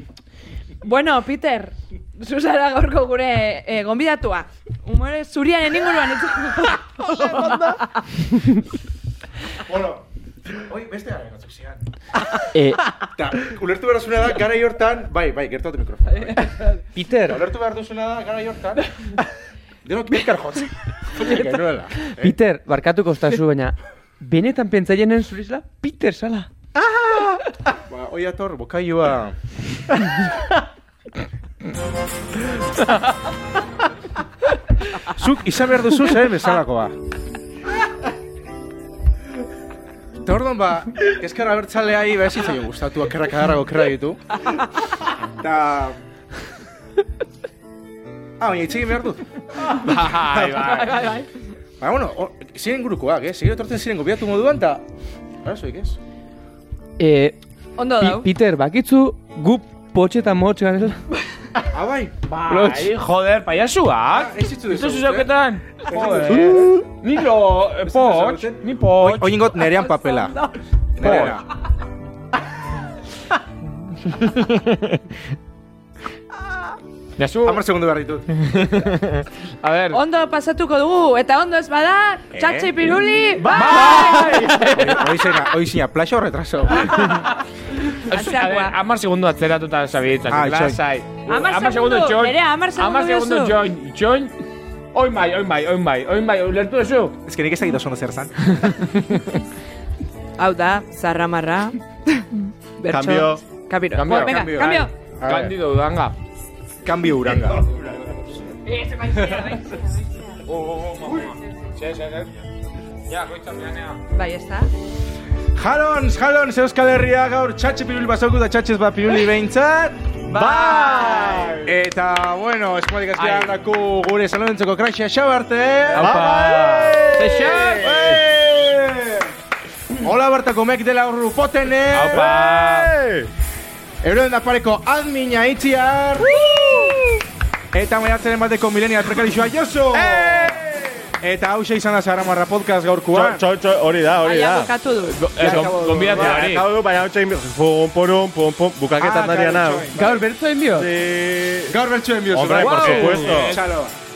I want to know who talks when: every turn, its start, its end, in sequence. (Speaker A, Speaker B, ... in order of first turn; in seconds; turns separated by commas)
Speaker A: 0.8-7.9, Speaker B: 7.2-7.8, Speaker C: 9.6-11.9, Speaker D: 12.5-12.9, Speaker C: 13.0-18.9, Speaker D: 16.9-17.4, Speaker C: 19.8-22.4, Speaker D: 22.2-26.5, Speaker C: 27.9-29.4, Speaker C: 35.0-37.0, Speaker C: 40.2-44.2, Speaker C: 45.3-46.0, Speaker C: 48.4-49.3, Speaker E: 49.6-51.1, Speaker A: 49.9-51.3, Speaker C: 50.1-50.5, Speaker C: 51.8-54.9, Speaker C: 55.4-56.0, Speaker D: 57.0-57.4, Speaker A: 57.8-58.3, Speaker D: 58.0-61.0, Speaker C: 61.7-62.7, Speaker E: 62.3-69.5, Speaker D: 62.5-62.9, Speaker C: 64.1-65.3, Speaker C: 65.8-66.8, Speaker C: 67.8-70.4, Speaker A: 69.6-70.6, Speaker C: 71.0-71.5, Speaker E: 71.0-71.4, Speaker E: 74.3-75.0, Speaker E: 77.2-77.6, Speaker C: 77.5-78.4, Speaker E: 78.3-80.0, Speaker A: 79.9-84.9, Speaker C: 82.3-82.8, Speaker E: 83.4-85.4, Speaker C: 83.6-87.2, Speaker E: 87.0-87.3, Speaker E: 87.9-94.3, Speaker A: 88.1-88.8, Speaker C: 90.3-90.8, Speaker A: 91.3-93.6, Speaker E: 94.9-97.2, Speaker C: 97.2-98.8, Speaker E: 98.7-99.2, Speaker A: 100.4-104.9, Speaker B: 102.9-103.4, Speaker E: 103.9-106.2, Speaker C: 104.1-105.5, Speaker C: 106.8-107.7, Speaker E: 107.5-108.2, Speaker A: 108.7-110.4, Speaker E: 109.2-109.6, Speaker E: 110.5-112.5, Speaker E: 113.1-114.0, Speaker A: 114.1-114.7, Speaker C: 115.6-120.1, Speaker A: 120.3-121.6, Speaker B: 120.3-121.8, Speaker C: 121.6-126.6, Speaker E: 123.2-123.5, Speaker D: 125.9-127.9, Speaker B: 126.0-128.2, Speaker E: 127.2-128.2, Speaker C: 127.2-129.3, Speaker C: 130.0-132.3, Speaker E: 131.9-132.9, Speaker B: 132.1-133.3, Speaker C: 134.0-136.4, Speaker A: 136.3-137.2, Speaker C: 137.7-140.6, Speaker B: 139.9-141.1, Speaker C: 141.2-143.4, Speaker B: 143.1-144.7, Speaker A: 144.2-145.3, Speaker E: 145.1-146.7, Speaker C: 145.4-146.4, Speaker B: 146.0-149.9, Speaker C: 148.9-150.2, Speaker D: 149.9-150.9, Speaker B: 150.7-151.8, Speaker C: 151.7-153.9, Speaker B: 152.3-153.6, Speaker E: 152.5-153.6